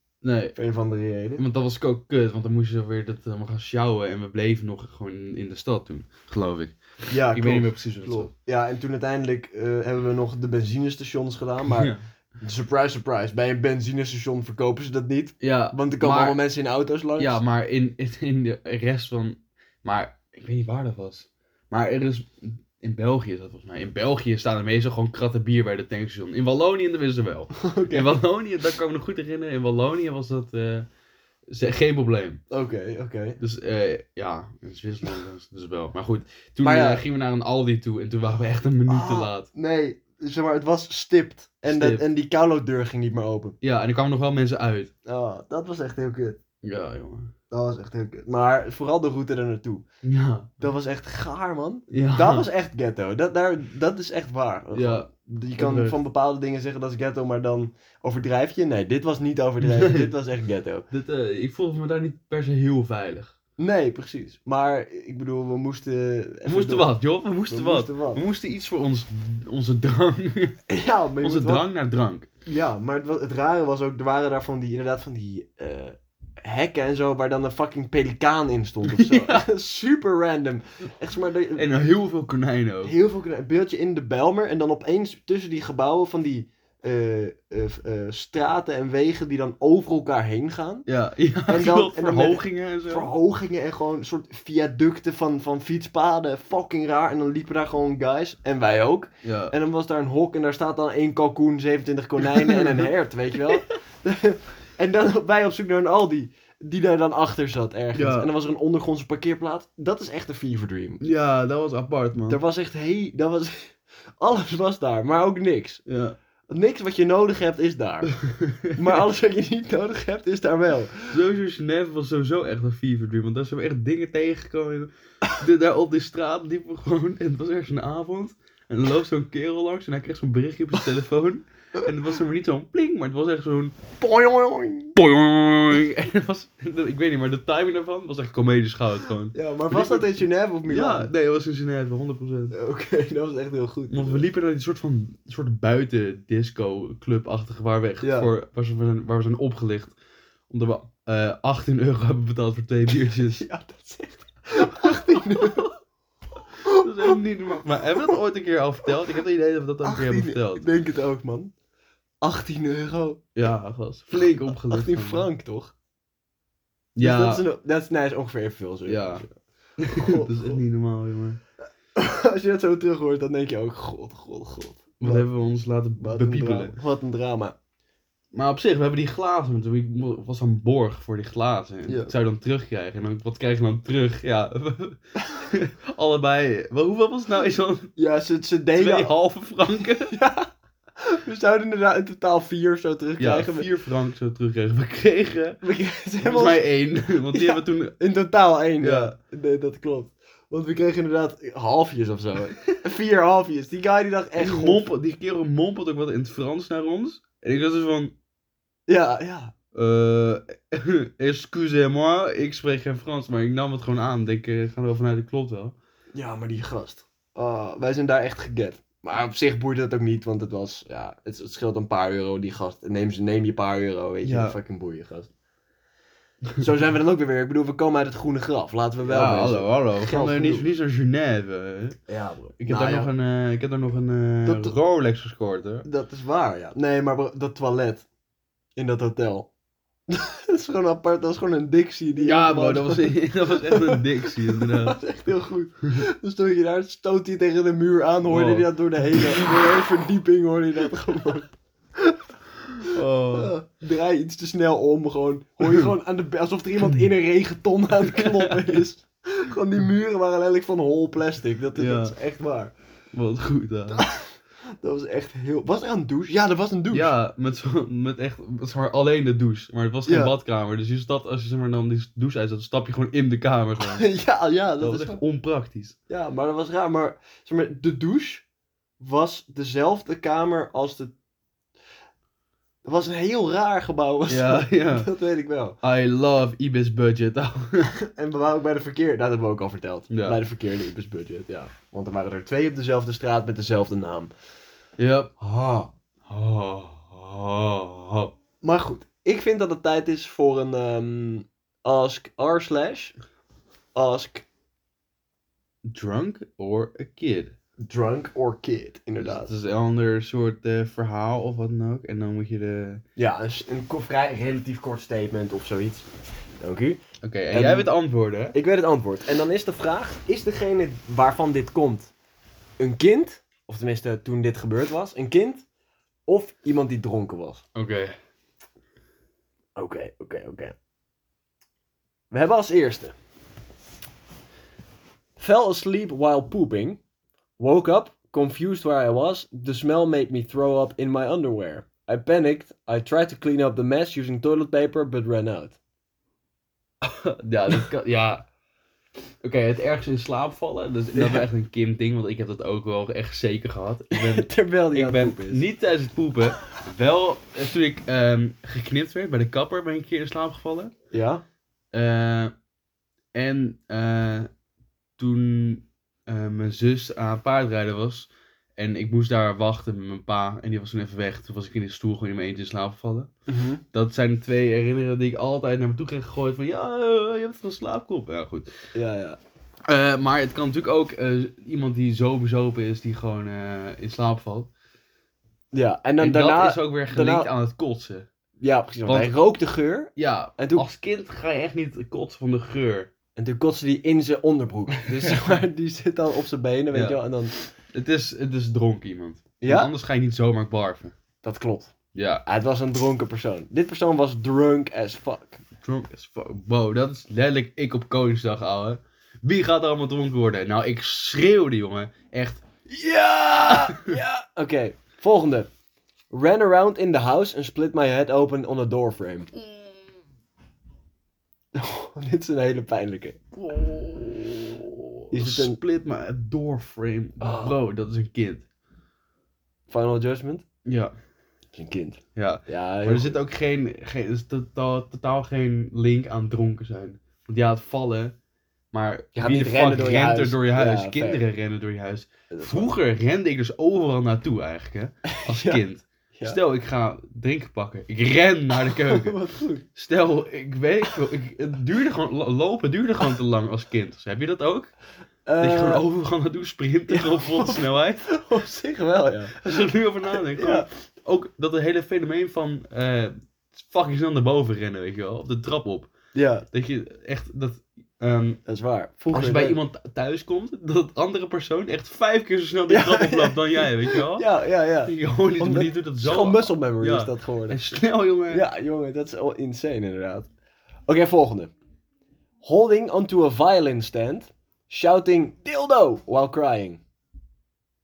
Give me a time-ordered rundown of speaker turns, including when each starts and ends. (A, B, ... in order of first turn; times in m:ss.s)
0:00.2-0:00.5 A
0:00.5-0:01.4 B
0:01.4-0:08.3 A
0:07.1-0:17.4 B
0:11.7-0:12.0 A
0:15.4-0:16.4 A
0:17.2-0:30.9 A
0:27.6-0:28.2 B
0:31.5-0:32.4 A
0:32.5-0:33.4 B
0:33.4-0:39.5 A
0:36.6-0:37.0 B
0:38.9-0:43.6 B
0:41.6-0:42.0 A
0:43.6-0:44.9 A
0:45.0-0:46.4 B
0:46.6-0:47.3 A
0:47.5-0:49.8 B
0:50.0-0:50.6 A
0:50.6-1:00.8 B
0:51.9-0:52.4 A
0:54.7-0:56.0 A
0:59.6-1:00.1 A
1:00.9-1:03.4 A
1:03.6-1:06.9 B
1:06.4-1:10.6 A
1:07.5-1:08.2 B
1:10.7-1:11.6 B
1:11.2-1:12.3 A
1:12.4-1:21.7 B
1:18.8-1:19.4 A
1:21.5-1:22.9 A
1:22.8-1:30.8 B
1:30.8-1:33.1 A
1:31.5-1:51.0 B
1:39.2-1:39.5 A
1:42.4-1:42.8 A
1:47.9-1:48.3 A
1:51.0-1:52.4 A
1:52.3-1:55.8 B
1:55.9-1:56.2 A
1:56.5-1:58.1 B
1:58.0-1:59.0 A
1:58.7-2:01.1 B
2:01.1-2:13.8 A
2:14.0-2:14.9 B
2:14.9-2:20.1 A
2:19.3-2:21.1 B
2:20.7-2:22.6 A
2:22.5-2:24.2 B
2:23.9-2:29.9 A
2:28.0-2:28.3 B
2:30.5-2:33.4 A
2:33.3-2:35.7 B
2:34.8-2:35.7 A
2:36.6-2:37.2 B
2:36.6-2:40.7 A
2:39.8-2:41.5 B
2:42.2-2:43.2 B
2:43.4-2:45.3 A
2:44.5-2:45.7 B
2:47.0-2:47.4 A
2:47.0-2:49.3 B
2:48.9-2:49.2 A
2:49.8-2:51.4 A
2:49.9-2:50.6 B
2:51.9-2:55.3 B
2:55.0-2:56.8 A
2:56.0-2:57.5 B
2:58.3-3:07.9 A
3:01.9-3:02.1 B
3:08.0-3:09.1 B
3:08.7-3:10.1 A
3:10.1-3:13.7 B
3:13.2-3:15.6 A
3:15.6-3:16.6 B
3:16.2-3:17.9 A
3:17.3-3:24.9 B
3:18.8-3:19.2 A
3:24.4-3:28.1 A
3:28.9-3:29.5 B
3:29.7-3:35.8 A
3:36.1-3:45.3 B
3:44.2-3:44.6 A
3:46.6-3:50.7 B
3:49.0-3:52.0 A
3:52.1-3:53.1 B
3:52.6-3:55.8 A
3:54.4-3:54.7 B
3:55.8-3:58.0 B
3:58.8-3:59.5 B
4:00.1-4:12.2 B
4:02.2-4:05.0 A
4:08.3-4:08.7 A
4:12.8-4:13.5 A
4:12.8-4:22.7 B
4:15.6-4:15.9 A
4:18.0-4:18.7 A
4:21.7-4:22.1 A
4:23.1-4:24.1 A
4:23.9-4:27.1 B
4:26.9-4:34.1 A
4:30.0-4:30.3 B
4:33.8-4:35.2 B
4:34.8-4:36.0 A
4:36.1-4:38.4 B
4:39.0-4:41.1 B
4:42.8-4:45.8 B
4:44.3-4:45.1 A
4:45.8-4:48.0 A
4:47.9-4:54.3 B
4:50.1-4:50.4 A
4:55.0-4:55.3 A
4:55.4-4:55.9 B
4:56.3-4:58.3 A
4:58.6-5:03.1 B
5:03.9-5:04.4 B
5:05.9-5:07.5 A
5:07.8-5:09.5 B
5:09.2-5:13.0 A
5:13.2-5:17.0 B
5:17.2-5:18.6 A
5:17.5-5:17.9 B
5:18.5-5:22.1 B
5:22.8-5:25.6 B
5:26.3-5:27.6 B
5:27.8-5:28.1 A
5:29.8-5:30.7 B
5:32.3-5:33.1 B
5:35.4-5:37.0 B
5:37.6-5:45.8 B
5:47.0-5:48.4 A
5:49.4-6:00.9 A
5:51.1-5:51.4 B
5:54.1-5:55.6 B
6:01.1-6:01.4 B
6:01.9-6:02.5 A
6:03.3-6:04.5 A
6:05.2-6:13.3 A
6:13.5-6:13.8 B
6:13.9-6:18.7 A
6:18.9-6:19.4 B
6:19.9-6:24.7 A
6:25.7-6:27.5 B
6:26.2-6:28.3 A
6:28.6-6:30.8 B
6:29.0-6:29.3 A
6:30.2-6:33.1 A
6:33.4-6:37.5 B
6:35.0-6:35.4 A
6:36.9-6:37.2 A
6:37.9-6:41.1 A
6:39.6-6:39.9 B
6:41.4-6:41.9 B
6:42.1-6:42.4 A
6:42.4-6:45.6 B
6:45.8-6:54.2 A
6:53.1-6:55.7 B
6:56.3-6:59.5 B
7:01.7-7:03.4 B
7:03.5-7:08.6 A
7:05.3-7:05.8 B
7:07.4-7:07.7 B
7:09.9-7:10.6 B
7:10.8-7:11.1 A
7:11.7-7:13.4 B
7:12.4-7:18.3 A
7:18.9-7:29.4 A
7:19.4-7:21.4 B
7:22.5-7:22.9 B
7:25.3-7:25.8 B
7:28.8-7:29.8 B
7:29.9-7:34.9 A
7:35.4-7:36.0 B
7:35.6-7:38.2 A
7:37.1-7:39.6 B
7:39.6-7:46.1 A
7:40.3-7:40.9 B
7:46.3-7:46.6 B
7:46.7-7:48.6 A
7:48.6-7:49.8 B
7:49.3-7:54.4 A
7:52.9-7:57.8 B
7:55.0-7:58.6 A
7:58.5-8:00.5 B
8:01.1-8:01.7 B
8:02.6-8:07.0 B